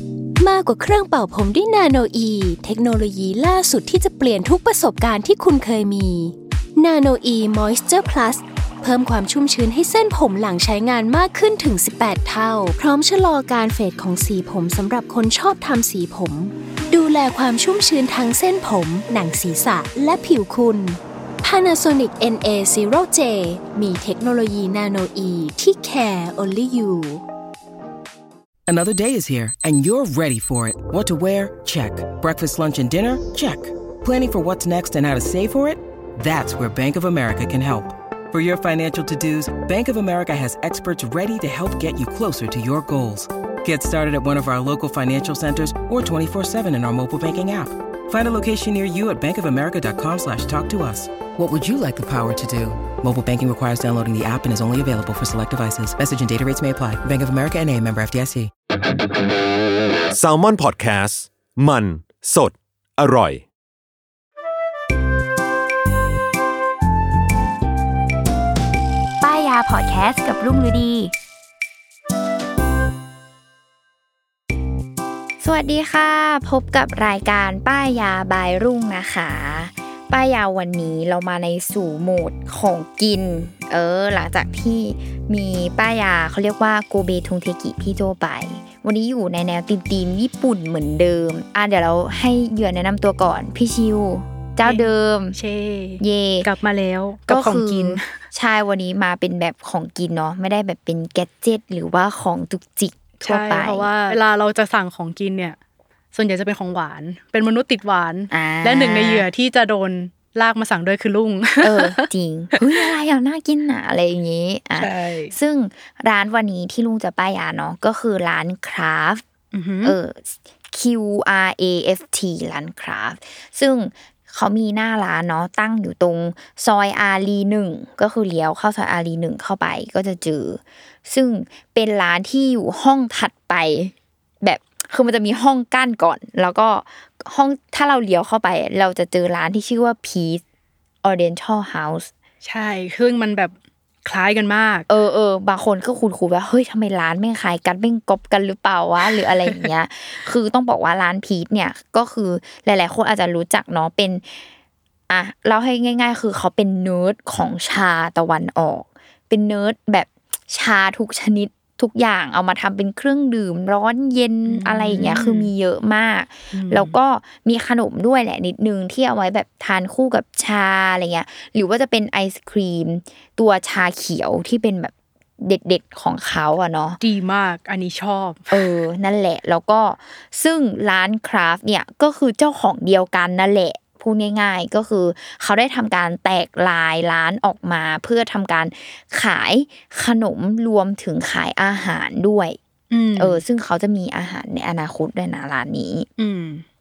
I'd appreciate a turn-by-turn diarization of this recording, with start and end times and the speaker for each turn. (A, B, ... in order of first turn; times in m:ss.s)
0:00.4-0:27.2 A
0:28.7-0:58.5 B
1:00.1-1:03.5 C
1:09.2-1:11.1 D
1:15.4-1:35.4 D
1:34.6-1:38.1 E
1:36.0-1:36.5 D
1:37.3-1:44.2 D
1:43.2-1:45.6 E
1:46.1-1:52.1 E
1:48.3-1:49.3 D
1:51.6-1:59.2 D
1:52.6-1:52.9 E
1:54.8-1:55.3 E
1:59.5-2:00.0 E
1:59.8-2:20.4 D
2:21.0-2:22.1 D
2:22.4-2:23.5 E
2:24.0-2:24.9 E
2:24.9-2:34.4 D
2:35.1-2:57.0 D
2:44.5-2:45.5 E
2:46.5-2:47.0 E
2:57.0-2:58.7 E
2:58.5-3:12.6 D
3:12.9-3:13.4 E
3:13.2-3:16.1 D
3:16.2-3:16.6 E